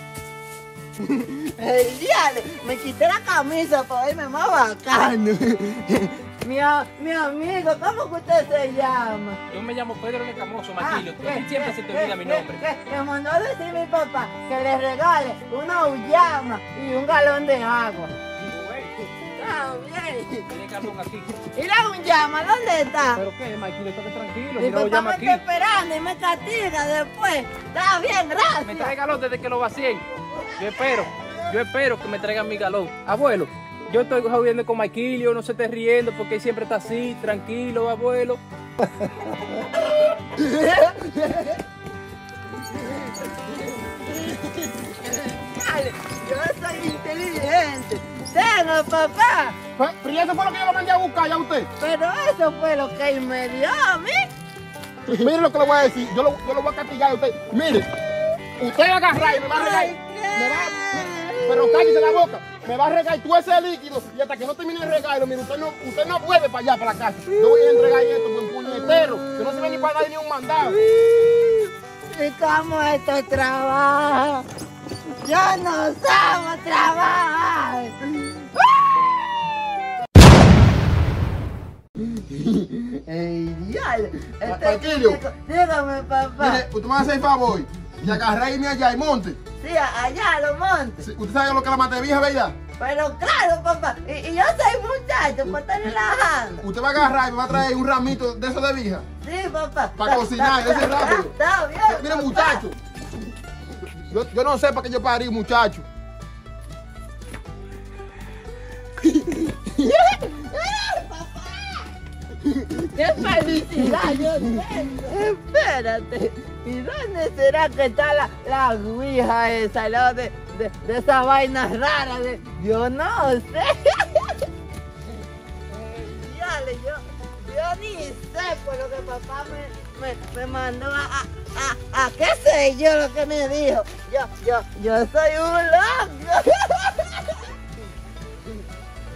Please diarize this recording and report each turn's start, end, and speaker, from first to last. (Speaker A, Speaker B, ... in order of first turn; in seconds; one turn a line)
Speaker A: 1.0-9.4
Speaker B: 9.5-12.6
Speaker A: 10.8-18.1
Speaker B: 18.5-18.9
Speaker A: 19.2-20.9
Speaker B: 20.5-21.3
Speaker A: 21.4-23.2
Speaker B: 23.1-25.4
Speaker A: 24.6-28.9
Speaker B: 28.6-30.0
Speaker B: 30.6-38.4
Speaker A: 30.6-31.1
Speaker A: 39.5-41.6
Speaker A: 42.6-49.6
Speaker C: 49.8-51.7
Speaker A: 51.8-54.3
Speaker C: 55.1-57.9
Speaker C: 58.6-70.8
Speaker A: 59.5-62.2
Speaker A: 67.3-69.2
Speaker A: 70.6-74.4
Speaker A: 75.2-79.4
Speaker A: 82.3-86.6
Speaker C: 84.4-85.2
Speaker C: 86.4-89.4
Speaker A: 89.6-91.1
Speaker C: 91.0-92.6
Speaker A: 92.8-96.6
Speaker C: 96.6-99.0
Speaker A: 99.2-102.6
Speaker C: 100.0-101.3
Speaker C: 101.9-102.7
Speaker C: 103.9-105.8
Speaker A: 109.0-111.9
Speaker A: 112.9-124.5
Speaker A: 125.7-137.5